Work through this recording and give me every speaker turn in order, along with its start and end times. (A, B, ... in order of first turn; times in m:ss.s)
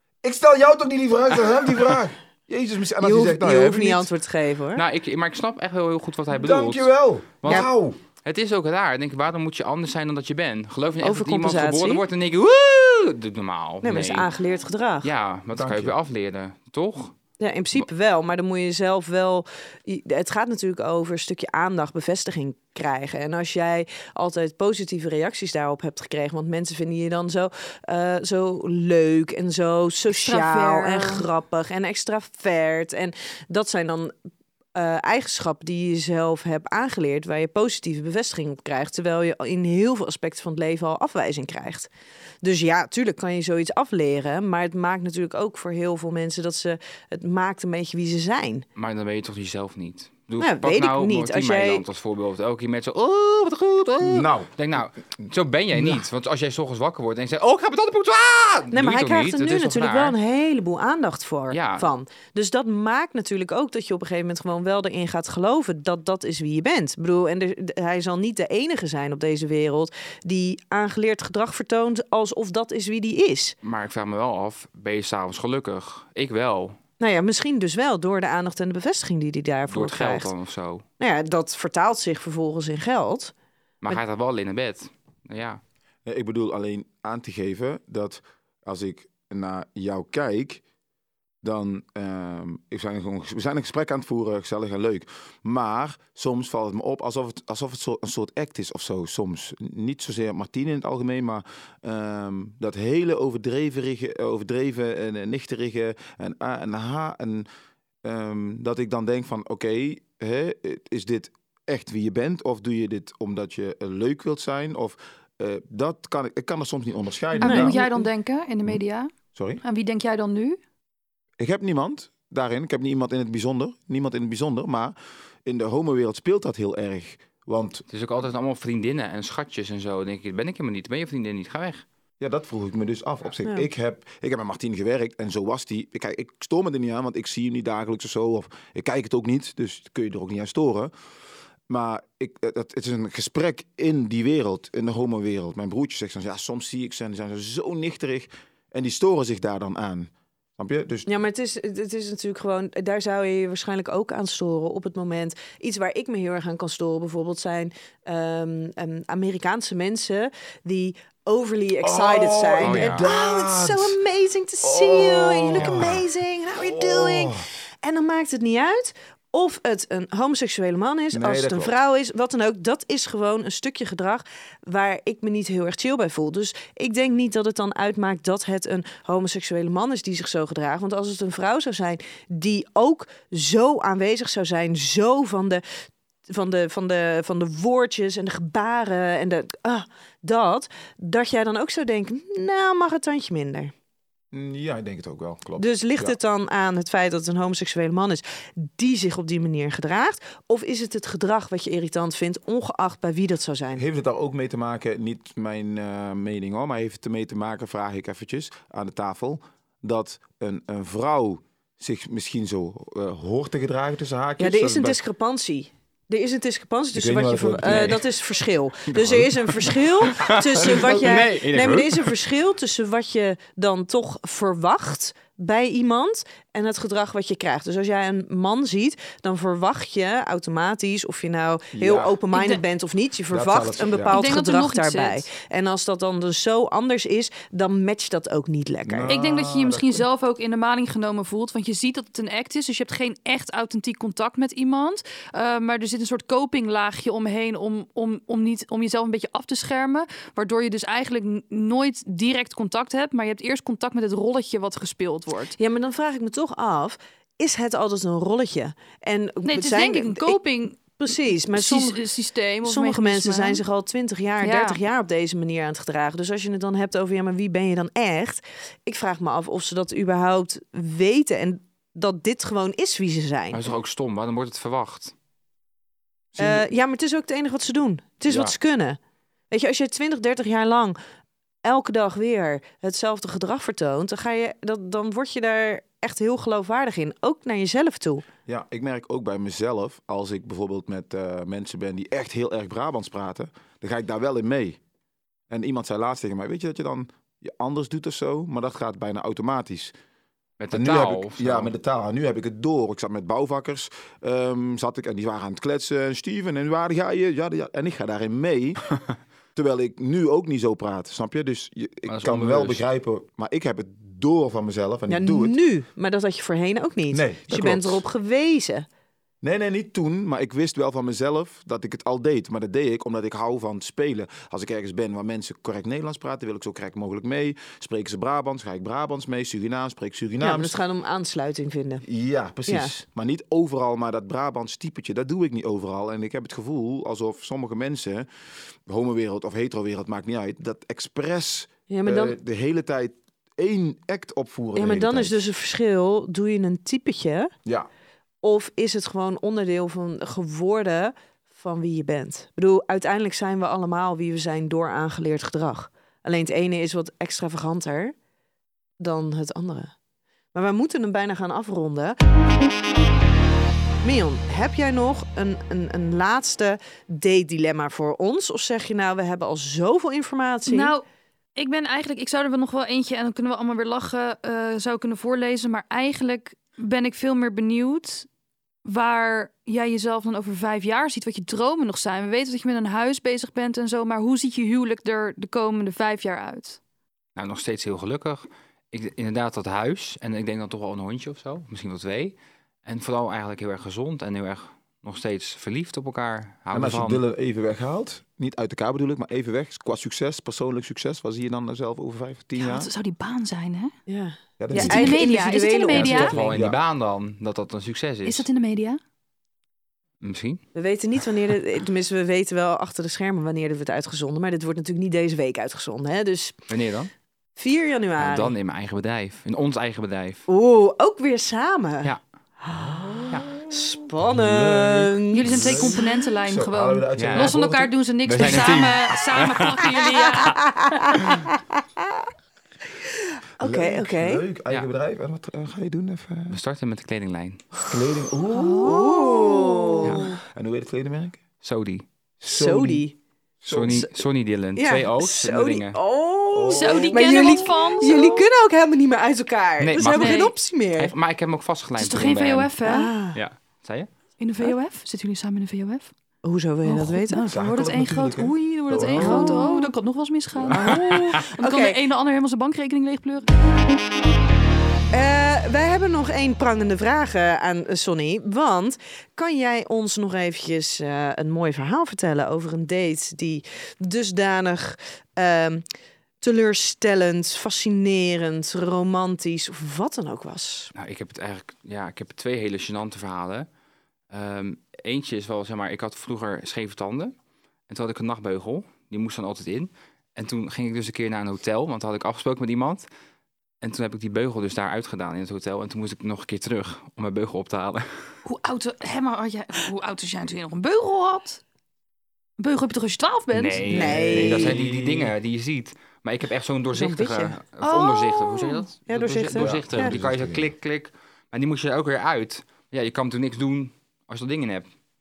0:00.2-0:04.1 A
0:03.0-0:04.8 B
0:04.8-0:07.7 C
0:06.3-0:08.0 A
0:08.2-0:14.3 C
0:11.0-0:12.0 B
0:13.8-0:15.1 B
0:15.0-0:17.2 C
0:15.5-0:15.9 A
0:17.4-0:34.1 B
0:30.1-0:31.3 D
0:34.8-0:41.9 B
0:42.4-0:48.6 B
0:48.8-1:00.2 C
0:50.4-0:51.8 B
0:54.0-0:54.5 A
0:55.7-0:56.0 A
0:58.7-1:13.6 B
1:01.5-1:01.9 C
1:13.6-1:16.8 C
1:17.0-1:20.3 B
1:19.7-1:20.8 C
1:21.0-1:23.3 B
1:23.8-1:25.6 C
1:26.0-1:30.6 A
1:31.4-1:47.5 A
1:48.0-1:57.9 A
1:57.4-1:59.1 D
1:57.4-1:58.1 B
1:59.4-1:59.6 A
1:59.6-2:00.6 D
2:01.4-2:07.8 A
2:07.9-2:11.9 C
2:12.2-2:20.9 A
2:21.7-2:31.1 A
2:31.1-3:05.6 B
2:41.8-2:44.0 A
2:42.6-2:43.1 C
2:44.6-2:47.5 A
2:51.1-2:51.7 A
3:06.3-3:13.7 B
3:14.3-3:16.2 A
3:15.6-3:23.8 B
3:23.8-3:35.0 A
3:34.4-3:59.1 B
3:36.9-3:38.1 A
3:39.0-3:39.5 A
3:40.0-3:42.2 C
3:40.6-3:41.3 A
3:51.7-3:52.2 A
3:52.3-3:52.6 D
3:53.3-3:54.2 A
3:54.1-3:55.3 D
3:58.9-4:00.1 A
3:59.1-4:15.6 D
4:15.6-4:22.0 B
4:19.4-4:20.8 D
4:21.5-4:23.6 D
4:22.6-4:33.6 B
4:24.4-4:24.8 D
4:33.5-4:35.1 C
4:36.3-4:36.7 A
4:36.4-4:39.0 B
4:38.3-4:38.6 A
4:39.5-4:41.0 B
4:41.6-4:48.3 B
4:48.5-4:54.8 A
4:55.5-4:59.9 A
5:00.6-5:01.7 C
5:00.7-5:08.8 A
5:09.6-5:15.6 A
5:12.1-5:12.8 C
5:15.1-5:18.9 B
5:17.1-5:18.0 A
5:19.4-5:30.7 A
5:30.4-5:32.0 B
5:32.0-5:38.3 A
5:38.9-5:45.5 A
5:41.9-5:42.4 B
5:44.8-5:47.5 B
5:48.4-5:58.1 B
5:59.0-5:59.9 B
6:00.5-6:02.2 B
6:04.0-6:11.0 B
6:10.7-6:11.0 D
6:11.6-6:18.3 D
6:18.8-6:26.8 D
6:27.4-6:37.2 C
6:36.7-6:42.9 A
6:42.6-6:43.9 D
6:44.1-6:46.6 B
6:44.6-6:45.2 A
6:44.7-6:46.4 D
6:45.9-6:48.5 C
6:46.5-6:46.8 A
6:48.2-6:49.0 D
6:50.2-6:50.6 C
6:50.8-6:56.6 B
6:56.7-6:57.1 C
6:57.6-6:58.6 B
6:58.2-7:00.4 C
7:00.5-7:06.0 B
7:02.8-7:08.8 A
7:05.3-7:11.1 D
7:07.2-7:07.5 C
7:08.2-7:09.8 C
7:10.3-7:12.3 B
7:13.1-7:14.4 B
7:13.6-7:16.6 A
7:16.5-7:17.6 C
7:17.9-7:21.4 A
7:18.5-7:19.4 D
7:18.8-7:20.4 B
7:21.6-7:22.1 C
7:22.4-7:23.1 A
7:22.4-7:23.2 B
7:23.6-7:24.1 A
7:23.7-7:26.0 C
7:24.8-7:31.1 B
7:26.5-7:27.8 A
7:26.7-7:28.5 D
7:29.8-7:32.8 C
7:30.0-7:30.5 D
7:32.0-7:33.1 D
7:32.8-7:33.4 B
7:33.3-7:34.1 C
7:34.4-7:36.1 D
7:36.4-7:37.5 B
7:36.8-7:43.5 D
7:37.5-7:39.7 A
7:38.9-7:39.9 B
7:40.7-7:41.1 C
7:40.7-7:42.0 B
7:45.1-7:55.8 B
7:56.4-8:00.9 B
8:01.0-8:03.7 C
8:04.3-8:07.4 C
8:07.9-8:13.1 C
8:13.8-8:18.3 C
8:18.4-8:21.6 D
8:22.6-8:24.1 D
8:23.5-8:34.9 C
8:23.9-8:24.8 B
8:23.9-8:25.3 A
8:26.9-8:27.6 B
8:27.8-8:28.8 D
8:29.1-8:30.2 B
8:29.5-8:30.7 A